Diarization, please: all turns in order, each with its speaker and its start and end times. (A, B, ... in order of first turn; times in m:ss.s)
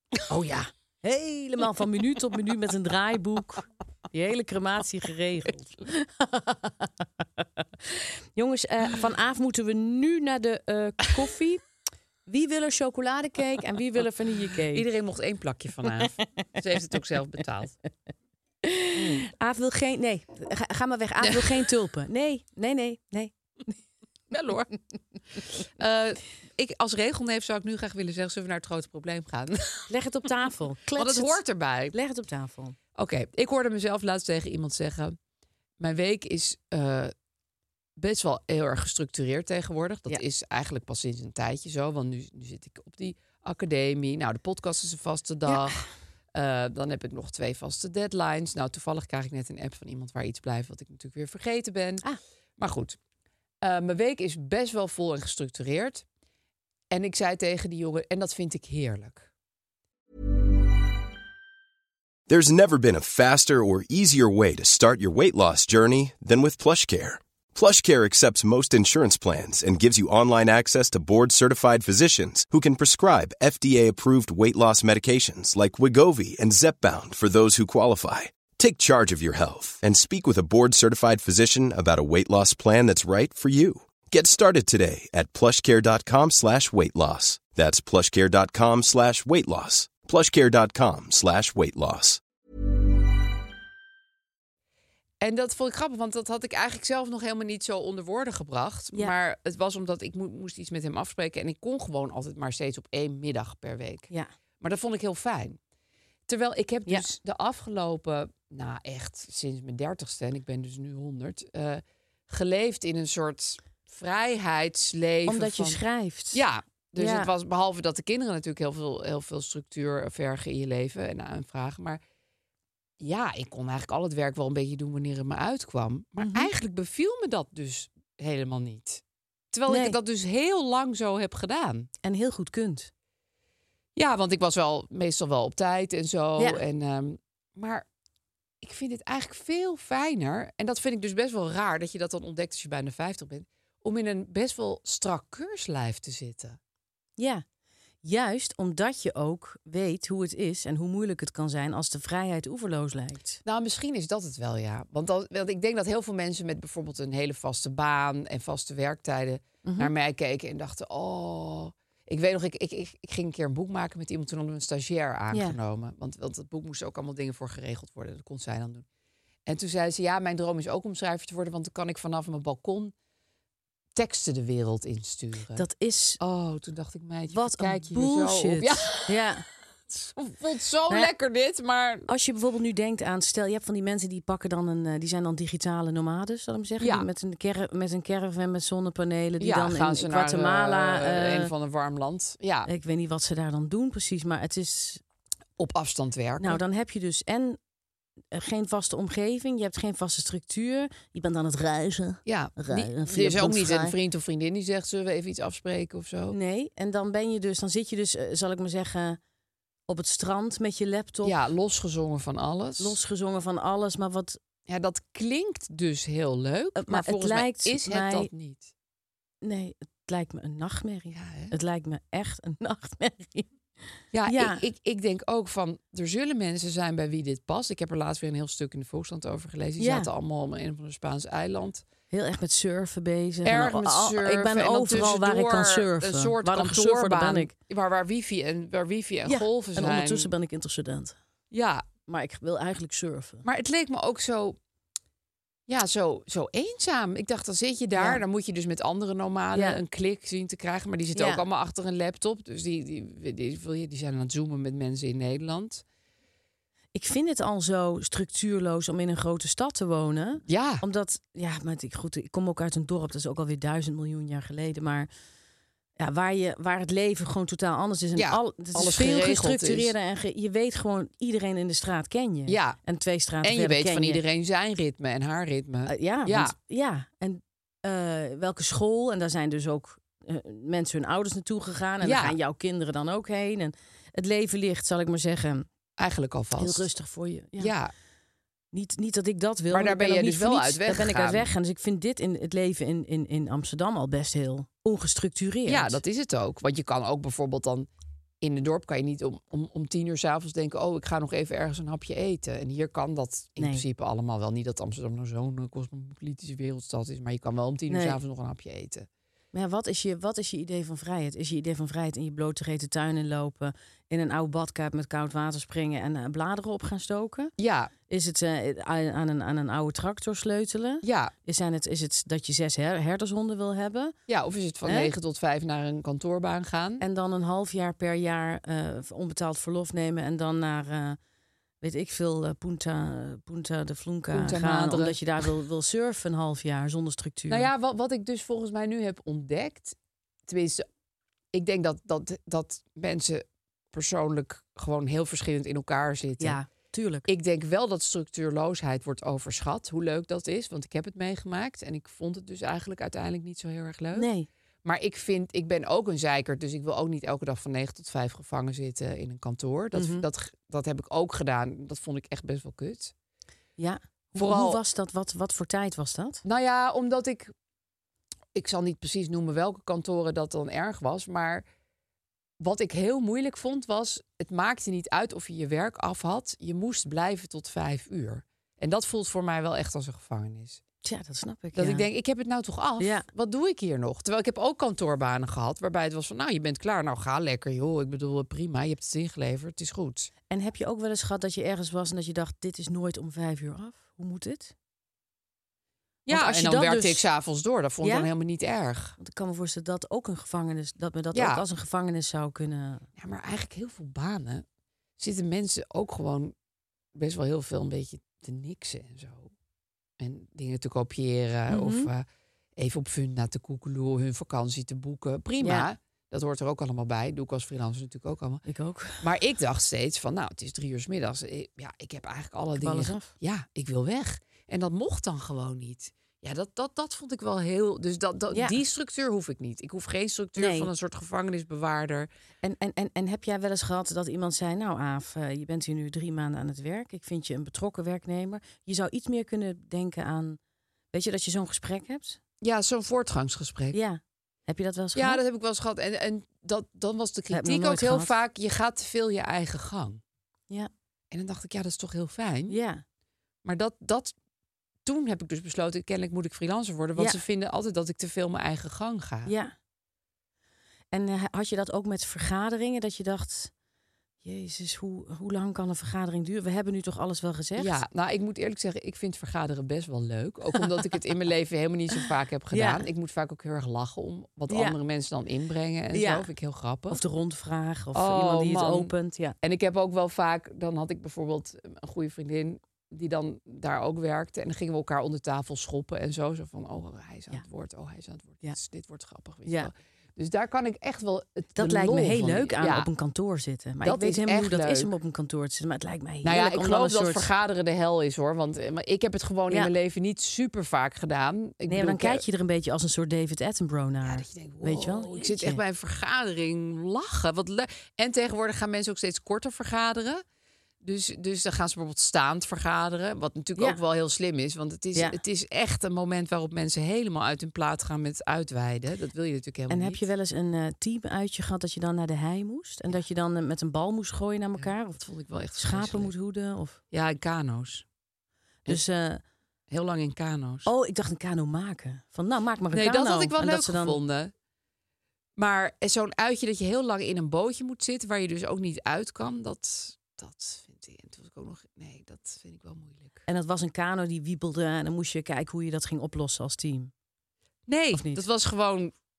0:00.3-0:11.6 A
0:12.3-0:14.8 A
0:14.7-0:17.7 B
0:18.6-0:23.7 A
0:19.0-0:19.2 B
0:21.2-0:21.6 B
0:24.3-0:24.7 B
0:25.8-0:29.9 B
0:29.9-0:32.8 A
0:31.0-0:32.0 B
0:33.0-0:35.2 B
0:35.8-0:37.1 B
0:38.0-0:45.8 B
0:45.5-0:45.8 A
0:46.3-0:52.0 B
0:52.6-0:53.0 B
0:53.6-0:56.0 B
0:56.9-0:59.3 B
1:02.3-1:32.2 C
1:35.2-1:44.1 B
1:44.6-1:45.6 B
1:46.3-1:55.8 B
1:55.3-1:56.4 A
1:56.3-2:02.0 B
1:57.0-1:57.3 A
2:03.0-2:11.9 B
2:06.2-2:06.5 A
2:09.7-2:10.0 A
2:12.0-2:12.9 A
2:14.0-2:17.8 B
2:18.6-2:26.6 B
2:27.2-2:27.4 A
2:28.0-2:33.4 A
2:33.4-2:48.8 B
2:39.6-2:39.9 A
2:45.3-2:45.6 A
2:49.4-2:52.9 B
2:54.0-2:55.6 B
2:55.6-2:56.2 A
2:56.2-2:59.3 B
2:57.3-2:59.4 A
2:59.9-3:02.1 B
3:02.1-3:11.5 A
3:06.8-3:07.1 B
3:09.4-3:12.7 B
3:12.6-3:15.0 A
3:15.6-3:16.6 B
3:16.4-3:17.6 A
3:18.3-3:24.0 A
3:22.3-3:26.4 B
3:26.3-3:29.2 A
3:29.9-3:31.3 A
3:31.2-3:33.0 B
3:32.8-3:34.4 A
3:34.7-3:38.7 B
3:36.8-3:38.3 A
3:39.4-3:43.5 A
3:41.1-3:41.5 B
3:44.1-3:51.8 B
3:44.3-3:44.6 A
3:49.8-3:50.1 A
3:52.1-3:57.5 A
3:53.4-4:00.3 B
3:59.3-4:01.2 A
4:01.5-4:01.8 B
4:02.1-4:03.4 A
4:03.4-4:04.6 B
4:05.7-4:15.8 B
4:08.0-4:08.2 A
4:09.6-4:09.8 A
4:11.1-4:11.4 A
4:16.9-4:25.1 A
4:20.5-4:20.8 B
4:26.0-4:34.2 A
4:28.2-4:29.9 B
4:32.5-4:32.8 B
4:33.4-4:36.6 B
4:35.9-4:45.7 A
4:42.0-4:42.4 B
4:46.0-4:46.9 B
4:46.6-4:47.7 A
4:47.6-4:47.9 B
4:48.7-4:56.0 A
4:49.7-4:51.5 B
4:55.7-4:57.9 B
4:58.4-5:09.1 B
5:03.6-5:03.8 A
5:07.9-5:08.2 A
5:09.5-5:17.5 A
5:17.6-5:17.9 B
5:18.1-5:24.1 A
5:21.0-5:21.3 B
5:24.3-5:27.0 B
5:24.9-5:25.1 A
5:27.0-5:31.2 A
5:31.8-5:37.7 A
5:34.3-5:35.2 B
5:37.5-5:40.0 B
5:40.5-5:40.8 B
5:41.5-5:46.6 B
5:46.4-5:47.3 A
5:47.3-5:54.3 B
5:54.1-5:54.5 A
5:54.8-6:03.1 B
5:59.9-6:00.3 A
6:03.8-6:06.4 A
6:04.4-6:04.8 B
6:06.4-6:07.5 B
6:08.6-6:11.6 B
6:12.6-6:20.8 B
6:21.0-6:22.0 A
6:21.7-6:30.3 B
6:23.0-6:23.3 A
6:30.5-6:34.7 A
6:36.3-6:39.2 B
6:36.3-6:37.3 A
6:38.0-6:38.3 A
6:39.2-6:43.0 A
6:41.3-6:41.6 B
6:43.2-6:44.6 B
6:45.2-6:46.5 B
6:47.2-6:49.5 B
6:50.2-6:52.2 B
6:51.7-6:52.1 A
6:52.8-6:58.6 B
6:55.6-6:55.9 A
6:58.7-6:59.2 A
6:59.2-7:12.3 B
7:02.8-7:03.3 A
7:08.5-7:08.8 A
7:10.6-7:10.9 A
7:12.6-7:20.6 A
7:21.1-7:22.4 A
7:22.6-7:24.0 B
7:23.9-7:25.4 A
7:25.1-7:30.2 B
7:27.5-7:28.3 A
7:31.3-7:32.8 B
7:32.7-7:33.0 A
7:33.6-7:34.3 B
7:35.0-7:39.5 B
7:39.4-7:39.7 A
7:41.1-7:43.7 A
7:44.4-7:48.0 A
7:47.8-7:57.2 B
7:52.2-7:53.1 A
7:54.7-7:55.0 A
7:56.1-7:56.5 A
7:57.1-7:59.6 A
7:58.1-8:13.1 B
8:09.6-8:09.9 A
8:11.8-8:17.5 A
8:14.0-8:15.1 B
8:16.4-8:22.4 B
8:21.9-8:25.8 A
8:24.2-8:30.4 B
8:31.0-8:40.2 B
8:39.9-8:45.2 A
8:44.8-8:46.3 B
8:45.8-8:47.0 A
8:47.1-8:48.0 B
8:48.9-8:49.4 A
8:49.9-8:50.9 B
8:50.9-8:54.2 A
8:52.9-8:54.5 B
8:55.6-9:03.4 B
9:03.5-9:07.1 A
9:07.9-9:09.1 B
9:08.1-9:08.4 A